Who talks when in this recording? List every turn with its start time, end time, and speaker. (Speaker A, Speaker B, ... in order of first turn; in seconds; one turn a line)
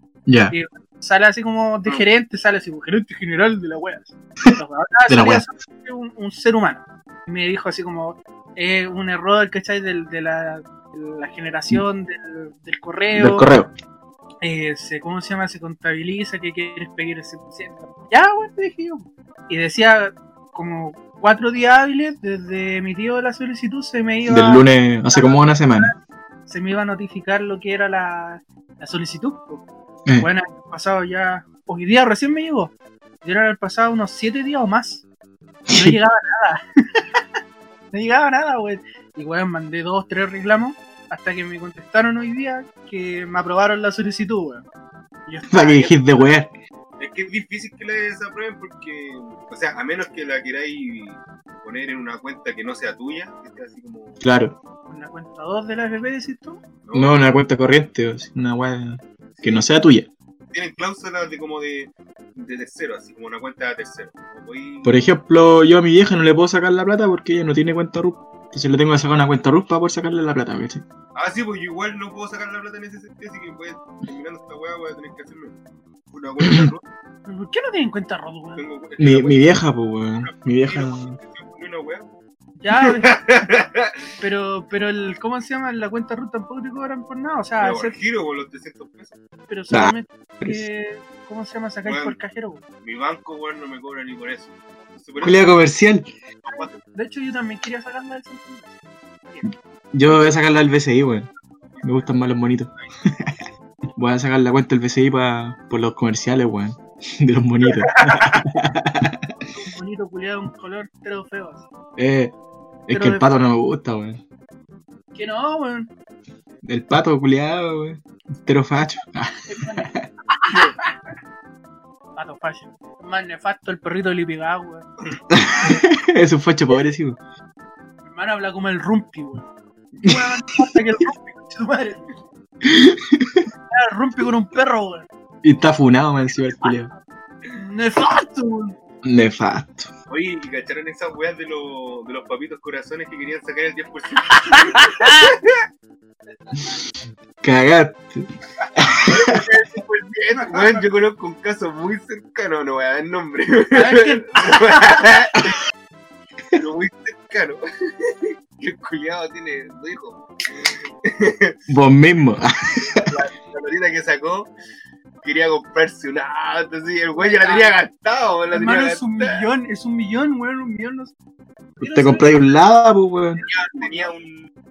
Speaker A: 0.3-0.5
Speaker B: 0.5-13.5
Speaker A: 5.1-5.4
Speaker A: 13.1-13.7
Speaker B: 14.4-25.9
Speaker A: 24.3-25.9
Speaker B: 26.5-29.6
Speaker B: 30.2-35.0
Speaker A: 35.7-36.0
Speaker B: 35.7-37.2
Speaker B: 37.9-44.6
Speaker B: 45.3-46.1
Speaker A: 45.5-46.5
Speaker C: 47.0-54.2
Speaker A: 54.2-54.5
Speaker B: 54.9-56.6
Speaker C: 56.8-57.3
Speaker A: 56.9-60.1
Speaker C: 59.3-59.7
Speaker C: 60.5-65.0
Speaker A: 64.8-70.8
Speaker C: 71.1-75.5
Speaker C: 76.1-76.8
Speaker B: 77.2-78.6
Speaker C: 78.5-79.5
Speaker A: 79.0-81.2
Speaker C: 80.2-82.1
Speaker B: 82.6-83.1
Speaker C: 82.8-83.9
Speaker B: 84.2-87.9
Speaker C: 87.6-89.2
Speaker B: 89.5-92.6
Speaker A: 89.7-90.6
Speaker C: 91.8-92.2
Speaker C: 92.8-95.5
Speaker A: 95.2-96.1
Speaker C: 96.4-96.8
Speaker B: 96.5-99.5
Speaker A: 99.9-101.3
Speaker C: 101.7-102.2
Speaker A: 101.8-103.3
Speaker A: 104.0-109.3
Speaker C: 107.9-108.4
Speaker B: 109.5-111.7
Speaker A: 112.0-112.3
Speaker A: 112.9-114.2
Speaker B: 112.9-113.3
Speaker B: 115.1-115.9
Speaker A: 116.6-120.0
Speaker B: 119.5-120.9
Speaker B: 122.2-124.9
Speaker A: 125.3-127.2
Speaker B: 128.1-129.4
Speaker B: 130.0-132.1
Speaker A: 132.6-133.5
Speaker B: 133.7-135.1
Speaker A: 135.4-136.9
Speaker B: 137.5-138.7
Speaker A: 139.0-139.9
Speaker C: 140.1-145.6
Speaker B: 144.3-145.3
Speaker B: 146.3-146.7
Speaker A: 147.4-149.4
Speaker C: 149.0-155.4
Speaker B: 150.3-150.9
Speaker B: 153.7-155.1
Speaker C: 156.5-161.7
Speaker A: 161.7-163.1
Speaker C: 163.0-164.5
Speaker C: 165.2-169.4
Speaker B: 167.1-167.8
Speaker B: 168.5-171.1
Speaker B: 171.8-172.4
Speaker A: 171.8-173.4
Speaker B: 173.4-174.1
Speaker C: 173.5-174.5